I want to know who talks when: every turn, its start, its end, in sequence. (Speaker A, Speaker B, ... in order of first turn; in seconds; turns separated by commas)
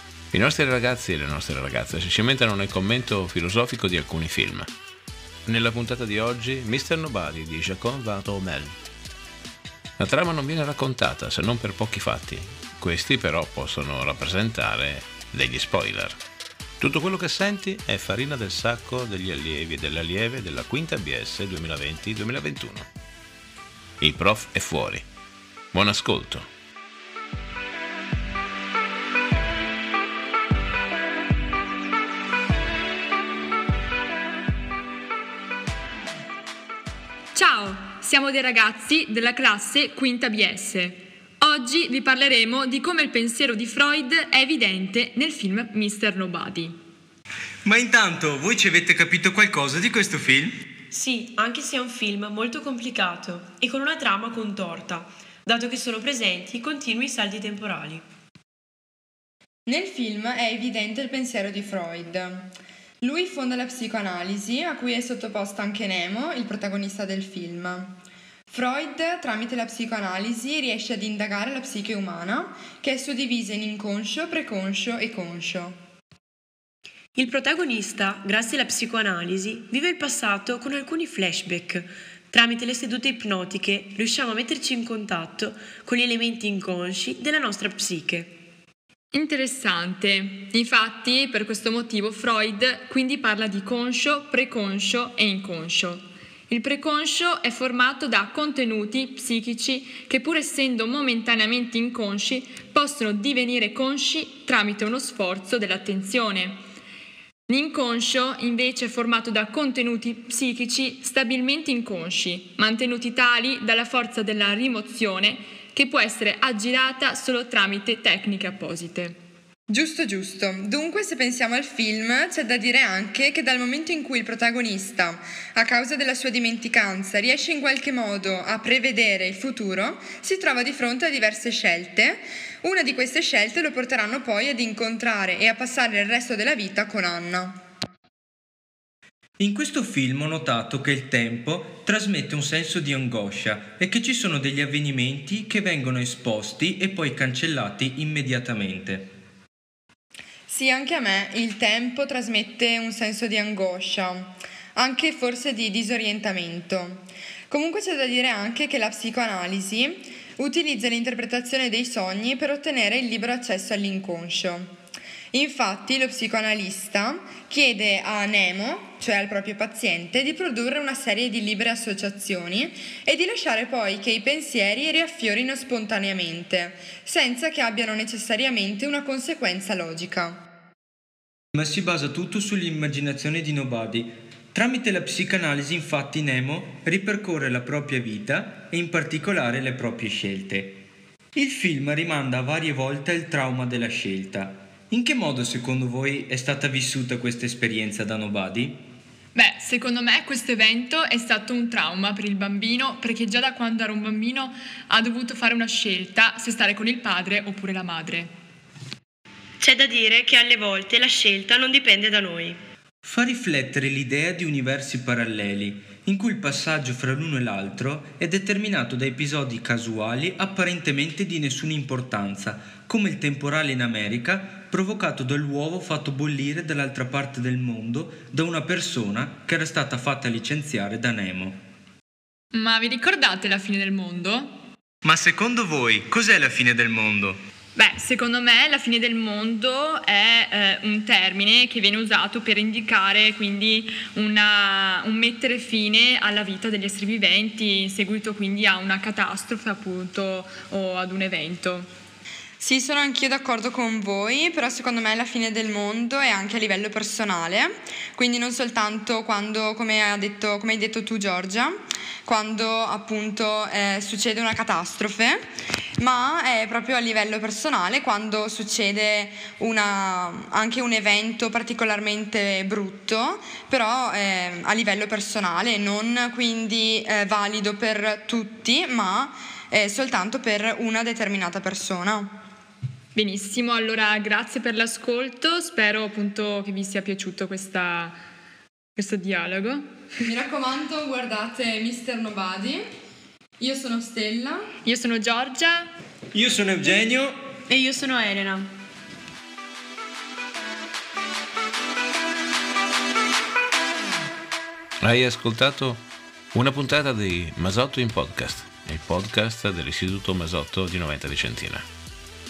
Speaker A: 0.3-4.7, Speaker A: 5.5-8.8, Speaker A: 10.0-16.2, Speaker A: 16.8-22.9, Speaker A: 24.0-25.1, Speaker A: 25.7-26.5, Speaker B: 37.3-46.8, Speaker C: 47.6-50.6, Speaker D: 50.9-58.0, Speaker E: 59.7-68.0, Speaker E: 68.5-75.8, Speaker D: 77.2-88.3, Speaker B: 89.1-106.6, Speaker B: 107.5-119.2, Speaker E: 119.7-137.6, Speaker C: 139.4-149.1, Speaker E: 150.5-164.7, Speaker E: 165.3-180.4, Speaker C: 181.6-190.8, Speaker C: 191.3-198.8, Speaker B: 199.3-208.3, Speaker D: 209.6-212.6, Speaker C: 213.0-231.6, Speaker B: 232.5-234.6, Speaker C: 235.0-237.4, Speaker B: 237.8-251.9, Speaker E: 252.6-265.4, Speaker E: 266.0-282.3, Speaker B: 283.1-288.2, Speaker B: 289.0-290.0, Speaker E: 290.2-292.8, Speaker E: 293.6-294.6, Speaker B: 294.8-295.9, Speaker C: 296.3-297.4, Speaker D: 297.7-298.7, Speaker A: 305.0-306.0, Speaker A: 306.5-311.9